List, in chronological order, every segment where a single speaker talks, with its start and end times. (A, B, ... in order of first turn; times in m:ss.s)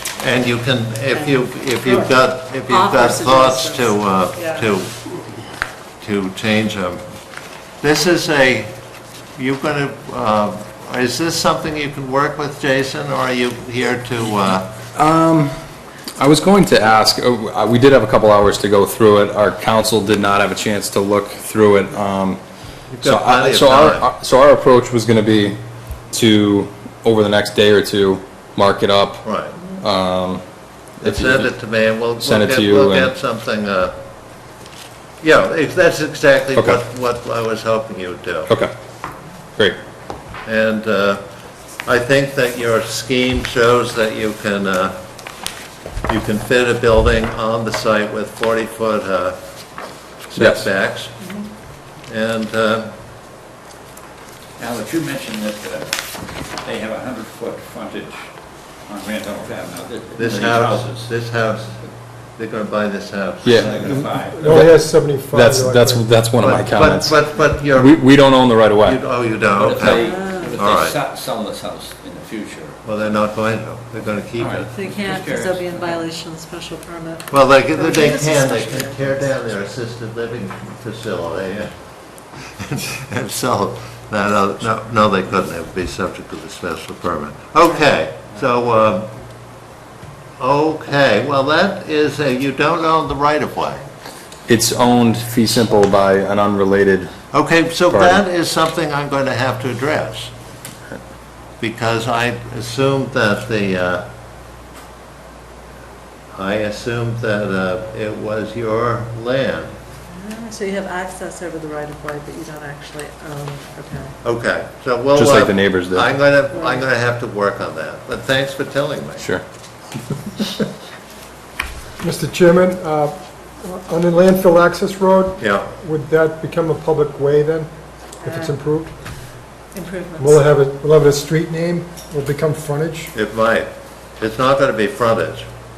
0:00.2-0:05.0 A
0:01.1-0:04.7 B
0:06.0-0:07.0 A
0:07.8-0:08.7 A
0:09.4-0:14.7 A
0:14.9-0:15.5 C
0:16.2-0:22.4 C
0:23.0-0:24.1 A
0:23.0-0:25.6 C
0:26.1-0:30.4 C
0:29.2-0:29.6 A
0:31.0-0:31.5 C
0:31.0-0:34.0 A
0:32.1-0:33.1 C
0:35.2-0:38.5 A
0:36.6-0:36.8 C
0:40.4-0:41.2 A
0:41.8-0:45.0 A
0:46.1-0:49.4 A
0:50.3-0:51.1 A
0:50.4-0:50.7 C
0:51.2-0:51.5 B
0:52.1-0:52.9 A
0:54.6-1:01.1 D
1:00.2-1:04.0 A
1:03.4-1:03.8 C
1:03.5-1:04.6 D
1:03.8-1:06.1 E
1:04.4-1:04.7 C
1:05.3-1:09.0 C
1:06.4-1:08.0 A
1:08.8-1:10.0 A
1:09.5-1:12.8 D
1:09.9-1:10.6 B
1:10.6-1:11.0 A
1:12.8-1:14.7 A
1:14.4-1:16.0 D
1:14.7-1:19.5 B
1:17.3-1:21.7 A
1:22.4-1:29.1 A
1:27.6-1:27.9 B
1:30.4-1:33.8 A
1:34.5-1:37.1 C
1:37.3-1:40.3 A
1:37.9-1:38.2 C
1:41.6-1:44.1 A
1:46.3-1:49.7 A
1:50.1-1:54.1 B
1:54.2-1:59.3 A
1:55.2-1:56.2 C
1:56.5-1:56.9 B
2:02.0-2:07.7 E
2:05.4-2:05.7 A
2:08.2-2:08.6 B
2:08.2-2:08.9 E
2:09.7-2:10.4 B
2:10.2-2:13.1 E
2:13.1-2:15.5 A